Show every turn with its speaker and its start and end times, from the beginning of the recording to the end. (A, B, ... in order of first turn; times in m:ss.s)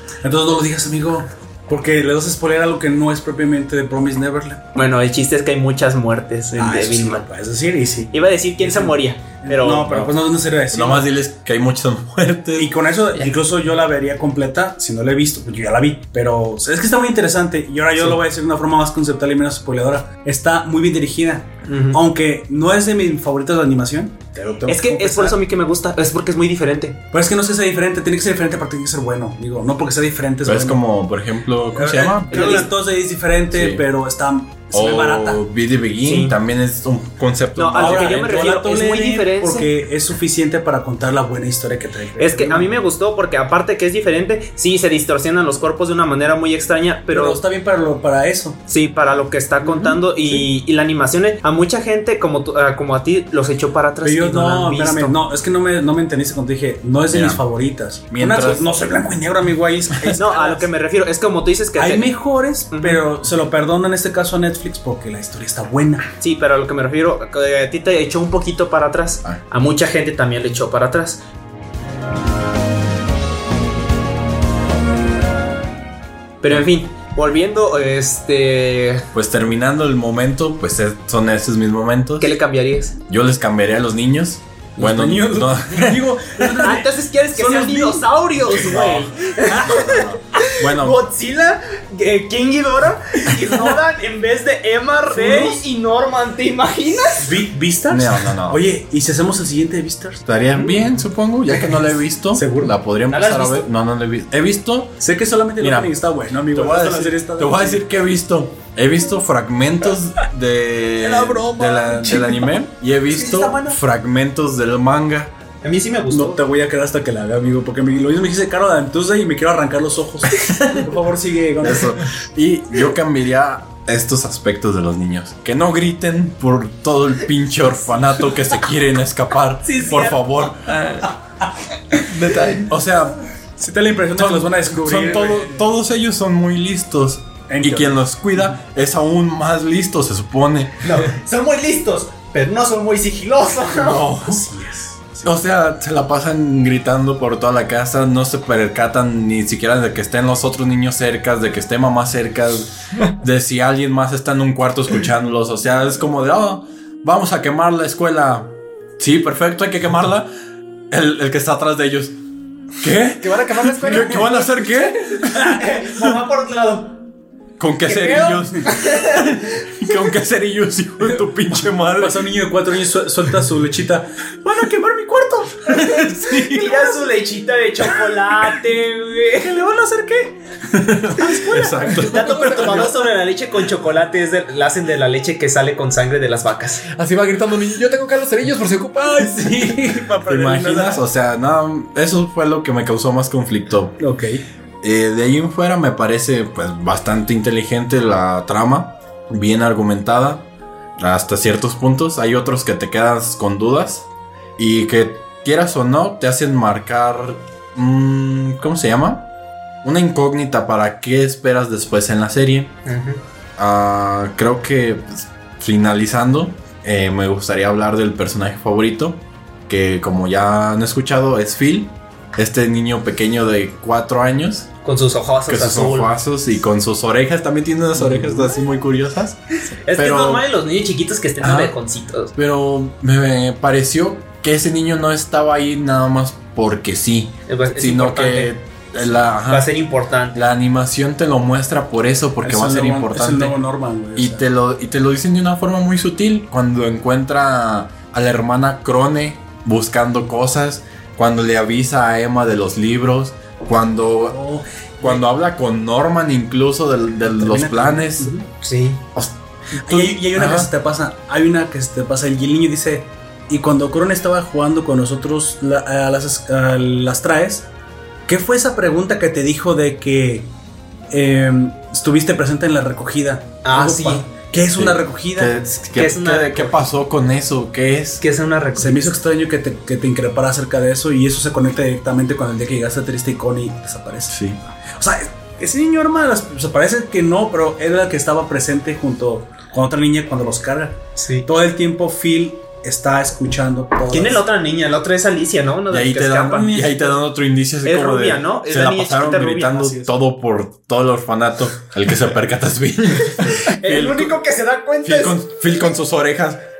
0:00.2-0:04.6 A
0:04.8-0:07.3 B
0:06.5-0:11.1 A
0:08.1-0:10.1 B
0:10.7-0:12.7 C
0:12.6-0:25.4 A
0:21.7-0:22.0 B
0:24.7-0:27.0 B
0:27.1-0:30.8 A
0:30.4-0:32.7 C
0:31.7-0:35.4 A
0:32.3-0:32.7 B
0:33.5-0:33.8 C
0:34.7-0:38.4 C
0:36.0-0:36.4 B
0:37.6-0:39.7 B
0:37.8-0:42.8 A
0:42.2-0:47.4 B
0:47.1-0:48.6 A
0:48.7-0:55.2 B
0:49.6-0:50.5 A
0:54.0-1:00.7 A
0:57.1-0:57.4 C
0:58.1-0:58.6 C
1:00.2-1:02.1 B
1:01.8-1:06.1 A
1:02.7-1:03.0 B
1:06.2-1:11.2 B
1:16.4-1:19.1 B
1:19.1-1:22.3 C
1:22.2-1:23.0 B
1:23.1-1:26.5 C
1:24.8-1:30.0 A
1:26.6-1:37.3 B
1:29.7-1:31.0 C
1:35.1-1:35.6 A
1:37.2-1:40.2 A
1:37.9-1:38.6 C
1:40.3-1:45.0 C
1:40.6-1:40.9 B
1:42.3-1:42.8 A
1:43.1-1:43.7 B
1:45.0-1:47.8 A
1:45.6-1:45.9 C
1:46.5-1:55.4 C
1:51.0-1:52.6 A
1:53.1-1:53.8 A
1:55.6-1:56.4 B
1:56.1-2:02.0 A
2:01.6-2:10.7 C
2:09.7-2:10.2 B
2:10.7-2:11.1 D
2:12.1-2:12.7 D
2:12.7-2:13.2 C
2:13.6-2:15.7 A
2:14.2-2:21.0 C
2:17.5-2:18.5 A
2:20.8-2:24.0 B
2:23.7-2:24.5 C
2:24.2-2:25.4 A
2:25.2-2:40.3 C
2:40.9-2:42.2 C
2:42.8-2:45.3 C
2:43.2-2:44.2 B
2:44.0-2:44.2 D
2:45.3-2:47.0 B
2:47.6-2:52.2 C
2:47.8-2:49.5 B
2:52.0-2:57.0 A
2:55.7-2:56.7 C
2:56.5-2:59.6 B
2:59.4-3:00.4 A
3:00.7-3:02.9 C
3:01.2-3:06.9 B
3:02.3-3:02.7 D
3:06.9-3:09.6 D
3:09.0-3:11.0 A
3:10.2-3:14.0 C
3:14.0-3:14.4 A
3:14.8-3:24.1 C
3:24.6-3:29.3 C
3:29.8-3:32.8 C
3:32.8-3:33.2 B
3:33.6-3:44.7 C
3:44.8-3:46.1 B
3:45.5-3:49.4 C
3:49.9-3:52.3 B
3:50.0-3:50.4 C
3:51.4-3:51.8 C
3:52.4-3:59.7 C
3:57.5-3:58.5 B
3:59.5-4:00.4 B
4:00.3-4:03.6 C
4:02.4-4:04.4 A
4:04.2-4:14.4 C
4:14.3-4:15.2 A
4:15.0-4:18.3 C
4:17.2-4:18.5 A
4:18.6-4:19.0 B
4:19.2-4:20.7 C
4:19.8-4:27.7 A
4:28.3-4:30.5 A
4:31.1-4:35.6 A
4:33.6-4:34.3 B
4:34.8-4:38.2 C
4:36.0-4:36.8 B
4:38.2-4:39.2 B
4:38.8-4:44.4 A
4:44.3-4:44.6 C
4:45.0-4:54.4 A
4:51.2-4:51.5 B
4:54.1-4:56.7 B
4:55.9-5:04.4 C
4:56.5-4:57.2 A
4:57.8-4:59.9 B
4:59.8-5:00.1 A
5:03.4-5:05.4 B
5:05.0-5:06.6 C